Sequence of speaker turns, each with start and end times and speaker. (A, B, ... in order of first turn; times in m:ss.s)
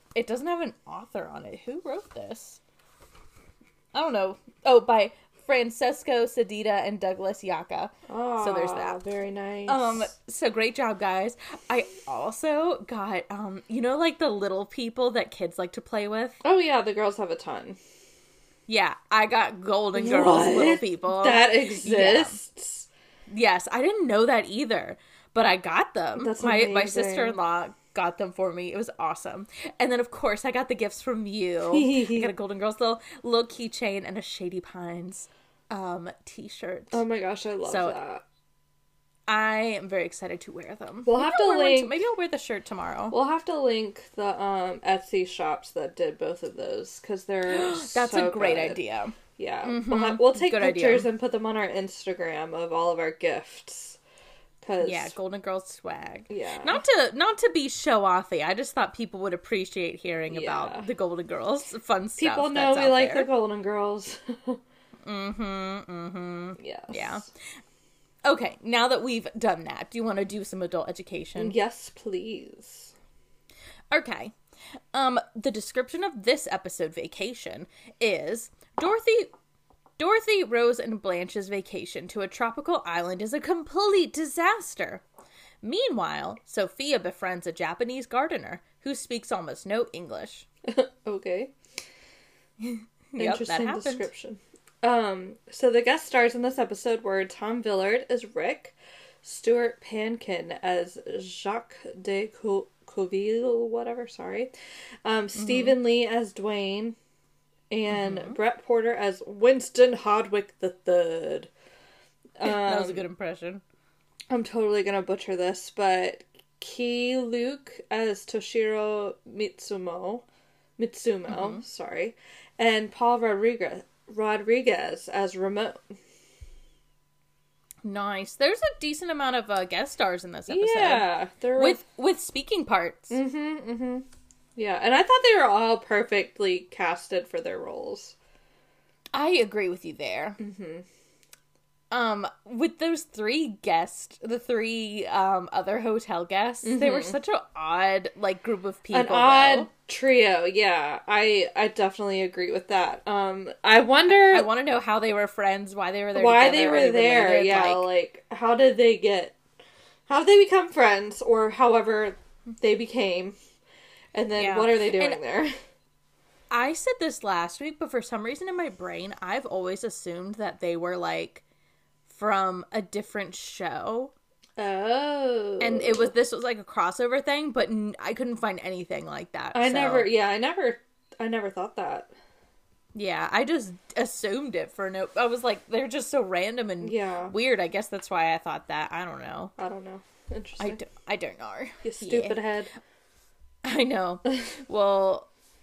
0:00.1-0:02.6 A
0:03.9-0:09.0 A
0:08.1-0:10.1 B
0:09.7-0:16.4 A
0:16.4-0:17.8 B
0:18.7-0:22.4 A
0:19.9-0:22.9 B
0:23.3-0:37.0 A
0:26.2-0:27.4 B
0:31.7-0:32.3 B
0:36.9-0:38.2 B
0:37.6-0:38.0 A
0:39.3-0:43.2 A
0:41.0-0:42.0 B
0:43.1-0:48.8 B
0:47.5-0:51.1 A
0:49.4-0:54.0 B
0:54.6-0:55.1 B
0:54.8-1:03.3 A
0:56.3-0:56.8 B
1:00.3-1:00.9 B
1:02.2-1:04.6 B
1:05.0-1:07.3 A
1:06.6-1:07.3 B
1:08.2-1:11.6 A
1:11.4-1:12.9 B
1:13.9-1:14.3 A
1:14.9-1:19.3 A
1:20.0-1:25.0 A
1:25.6-1:30.5 A
1:30.7-1:31.5 B
1:32.6-1:34.1 A
1:33.2-1:44.5 B
1:45.0-1:47.0 B
1:45.3-1:45.8 A
1:47.7-1:51.5 B
1:47.9-1:48.4 A
1:52.4-1:53.0 B
1:52.4-1:53.6 A
1:54.3-2:00.2 B
2:00.8-2:06.0 B
2:01.3-2:01.6 A
2:07.8-2:13.2 A
2:10.5-2:11.8 B
2:13.1-2:18.2 B
2:19.1-2:20.4 A
2:20.4-2:20.8 B
2:21.9-2:29.7 A
2:26.6-2:27.1 B
2:28.9-2:34.5 B
2:34.1-2:37.9 A
2:36.1-2:39.4 B
2:40.1-2:43.4 B
2:44.1-2:45.5 B
2:44.4-2:45.2 A
2:46.5-2:51.4 A
2:52.1-2:54.1 A
2:54.6-2:56.1 B
2:55.6-3:00.1 A
2:59.5-3:02.1 B
3:02.9-3:09.5 A
3:06.8-3:07.3 B
3:09.6-3:10.8 B
3:10.6-3:12.4 A
3:11.8-3:12.7 B
3:13.6-3:15.3 A